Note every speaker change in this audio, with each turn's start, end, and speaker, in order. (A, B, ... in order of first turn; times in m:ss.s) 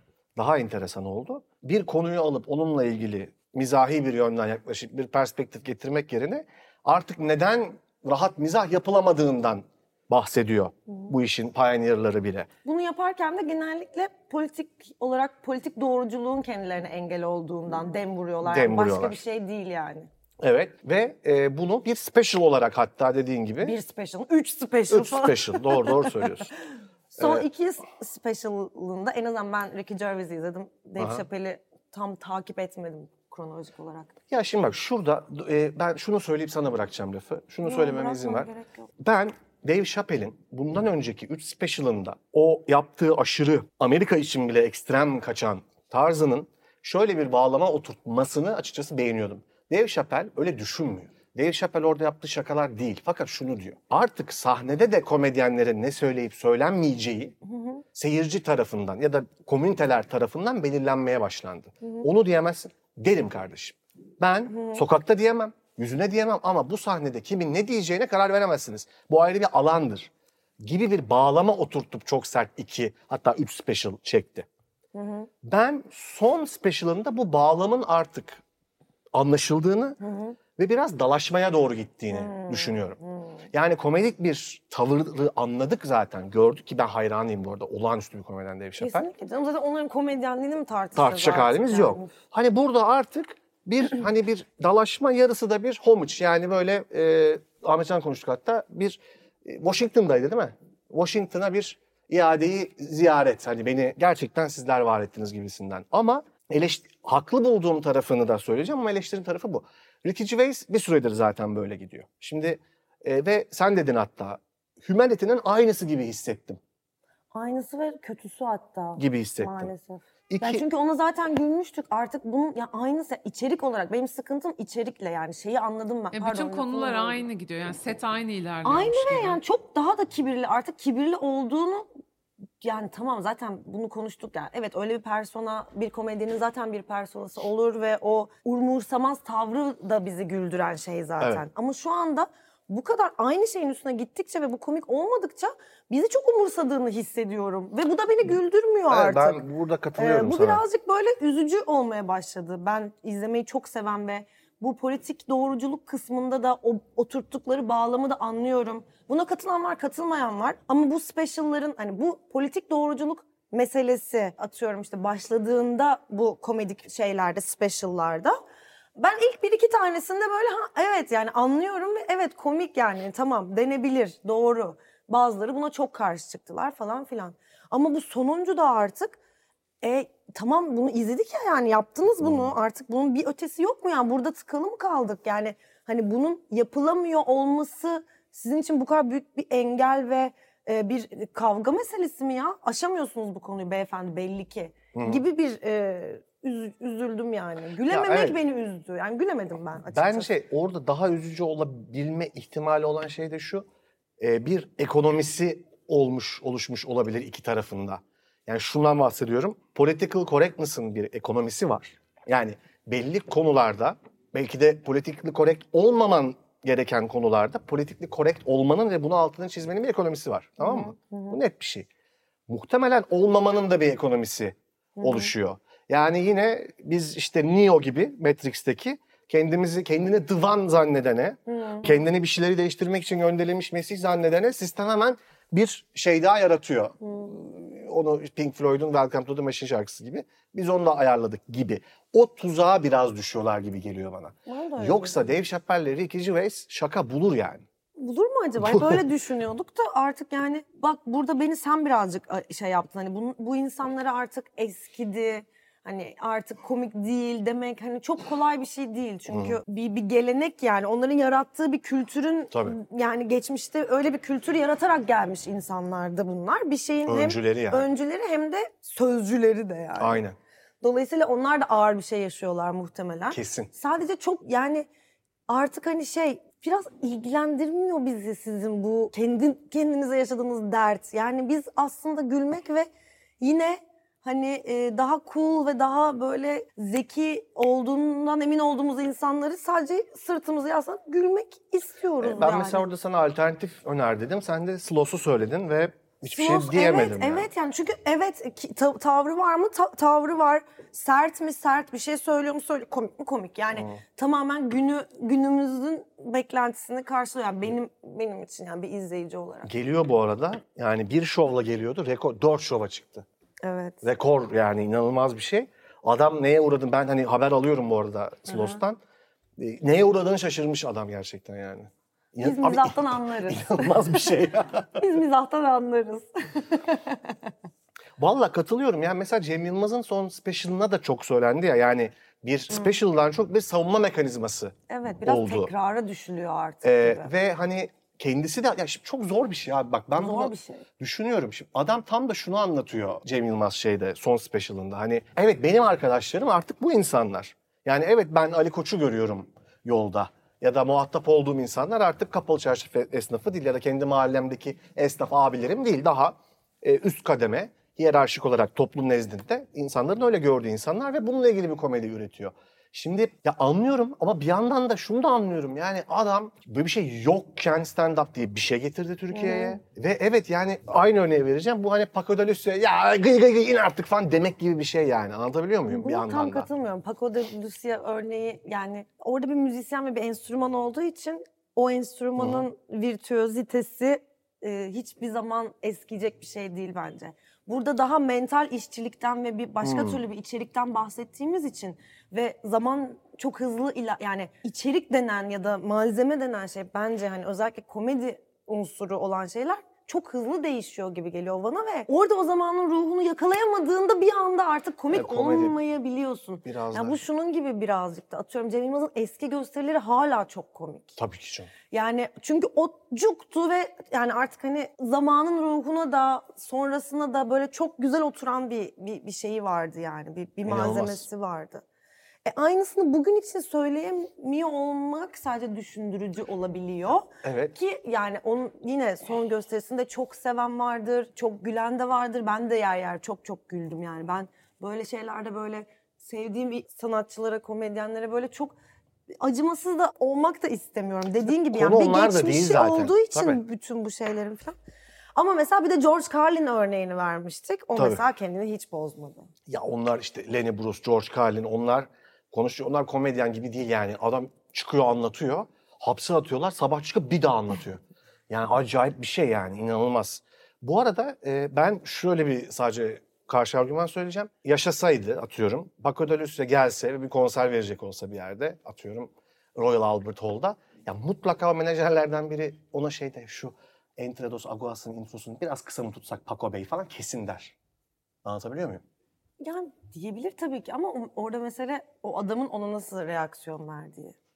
0:00.4-0:12.5 A
0:12.6-0:20.1 B
0:18.4-0:19.2 A
0:20.4-0:23.8 A
0:23.6-0:26.4 B
0:24.9-0:26.5 A
0:27.1-0:34.1 B
0:27.2-0:27.4 A
0:31.0-0:31.2 A
0:34.3-0:57.3 A
0:37.6-0:38.9 B
0:57.4-0:57.8 B
0:57.9-1:14.5 A
1:04.5-1:04.8 B
1:14.9-1:15.3 B
1:15.4-1:18.4 A
1:19.1-1:20.0 A
1:20.0-1:20.4 B
1:20.6-1:23.0 A
1:22.1-1:23.4 B
1:23.5-1:29.1 A
1:28.8-1:32.1 B
1:30.9-1:56.6 A
1:57.3-2:07.2 B
1:59.0-1:59.7 A
2:00.3-2:00.6 A
2:06.1-2:09.4 C
2:08.6-2:11.9 B
2:12.6-2:29.4 B
2:21.2-2:21.4 A
2:28.9-2:30.6 A
2:30.0-2:48.4 B
2:49.0-2:59.2 B
2:59.8-3:20.3 B
3:02.2-3:02.5 A
3:14.9-3:15.2 A
3:17.9-3:18.4 A
3:19.9-3:23.6 A
3:24.2-3:41.9 A
3:40.6-3:41.4 B
3:42.5-4:07.6 A
3:45.0-3:45.3 B
3:51.5-3:52.0 B
3:57.0-3:57.3 B
4:04.5-4:05.2 B
4:08.0-4:30.2 B
4:08.6-4:09.0 A
4:19.3-4:19.6 A
4:22.5-4:22.8 A
4:27.0-4:27.9 A
4:30.0-4:30.4 A
4:30.8-4:34.9 B
4:33.3-4:33.7 A
4:35.5-4:42.9 B
4:43.4-4:52.8 B
4:52.2-4:57.5 A
4:56.3-5:09.7 B
5:03.7-5:04.0 A
5:09.6-5:13.2 A
5:13.6-5:14.0 B
5:14.0-5:19.0 A
5:18.5-5:18.8 B
5:19.6-5:25.0 A
5:22.4-5:24.3 B
5:24.9-5:27.5 B
5:28.2-5:35.7 A
5:34.9-5:37.3 B
5:36.8-6:16.7 A
5:40.2-5:40.8 B
6:09.3-6:09.8 B
6:15.9-6:51.2 B
6:22.4-6:22.6 A
6:29.8-6:30.2 A
6:45.1-6:45.8 A
6:46.6-6:47.2 A
6:51.2-6:51.7 A
6:51.9-7:01.8 B
7:00.6-7:01.2 A
7:02.4-7:18.8 B
7:07.4-7:07.8 A
7:19.4-7:24.8 B
7:21.7-7:23.6 A
7:25.4-7:29.5 B
7:28.0-7:28.2 A
7:29.7-7:57.8 A
7:58.4-7:59.0 A
7:59.6-8:04.4 B